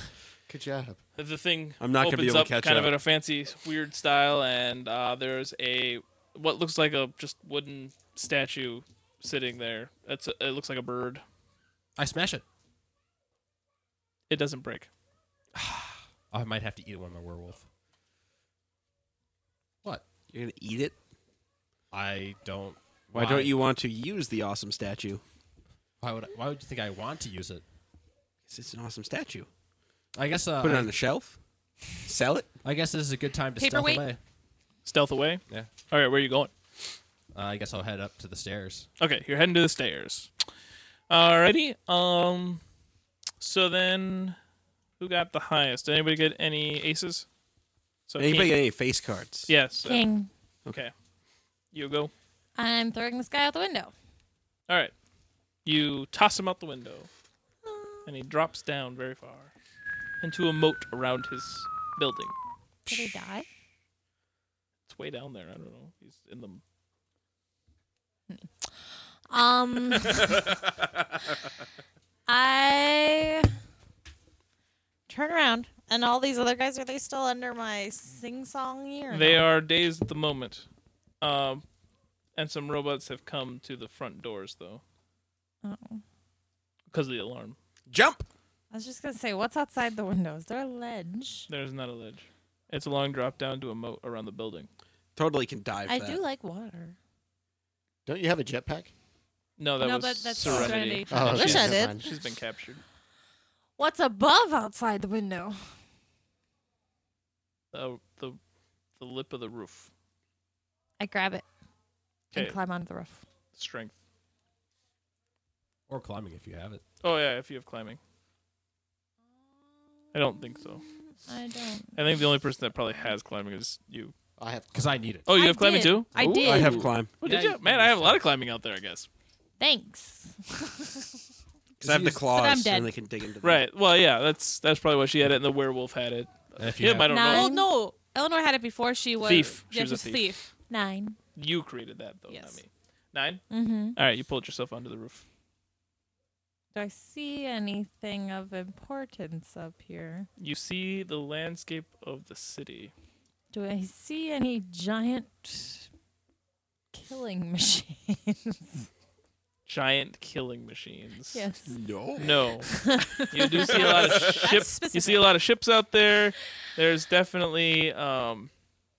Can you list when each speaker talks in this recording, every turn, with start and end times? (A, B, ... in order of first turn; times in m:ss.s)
0:00.5-0:01.0 A
0:01.2-0:11.2 B
0:01.8-0:02.9 C
0:12.0-0:12.4 D
0:14.3-0:14.9 B
0:15.5-0:17.6 D
0:20.3-0:20.9 C
0:21.9-0:23.6 D
0:23.1-0:25.2 C
0:26.0-0:27.6 D
0:28.5-0:29.5 C
0:30.1-0:30.9 D
0:30.6-0:31.4 C
0:32.0-0:32.5 C
0:32.6-0:34.2 D
0:33.6-0:34.0 E
0:34.8-0:36.5 B
0:37.3-0:38.9 D
0:39.0-0:40.3 B
0:41.1-0:42.6 B
0:43.4-0:44.4 B
0:45.0-0:47.2 B
0:48.1-0:48.6 B
0:48.2-0:49.5 C
0:49.5-0:50.0 B
0:49.8-0:50.3 F
0:51.7-0:52.1 B
0:52.6-0:53.9 F
0:54.7-0:54.9 B
0:55.6-0:57.1 B
0:57.6-0:57.9 F
0:58.0-0:59.5 B
1:00.2-1:02.4 B
1:02.9-1:03.5 F
1:04.9-1:06.6 B
1:09.3-1:10.4 F
1:12.3-1:13.5 F
1:15.1-1:19.4 F
1:19.1-1:20.6 B
1:21.2-1:21.6 B
1:22.3-1:24.8 B
1:25.6-1:26.0 F
1:26.9-1:27.6 B
1:27.9-1:28.2 C
1:28.7-1:31.5 F
1:31.5-1:34.7 B
1:35.2-1:36.2 C
1:35.9-1:37.0 F
1:38.0-1:38.9 A
1:39.6-1:42.8 B
1:39.8-1:41.8 E
1:40.4-1:42.0 A
1:41.2-1:42.1 F
1:43.8-1:45.7 F
1:47.7-1:48.4 B
1:49.0-1:49.9 B
1:51.0-1:51.4 F
1:52.3-1:52.6 B
1:52.3-1:53.2 F
1:53.5-1:54.0 B
1:55.9-1:56.8 D
1:57.0-1:58.0 B
2:00.1-2:00.8 B
2:01.2-2:02.0 F
2:02.0-2:04.1 B
2:04.4-2:04.9 A
2:04.7-2:05.3 D
2:05.2-2:09.1 B
2:05.3-2:06.9 E
2:05.4-2:05.9 F
2:06.2-2:07.1 C
2:07.2-2:08.2 D
2:09.6-2:11.2 F
2:11.8-2:12.2 D
2:11.8-2:13.6 C
2:12.3-2:12.9 E
2:13.4-2:17.5 B
2:16.6-2:17.1 D
2:17.1-2:20.4 E
2:17.1-2:17.7 F
2:19.2-2:20.2 B
2:20.7-2:21.2 F
2:21.3-2:23.4 B
2:22.3-2:22.6 E
2:23.5-2:24.0 F
2:23.9-2:25.2 B
2:26.7-2:30.3 F
2:30.4-2:32.9 B
2:33.5-2:35.9 F
2:36.9-2:38.9 F
2:39.7-2:41.5 B
2:41.3-2:41.8 F
2:41.7-2:42.4 C
2:42.2-2:48.5 B
2:42.6-2:43.7 F
2:43.7-2:44.5 C
2:43.8-2:45.3 E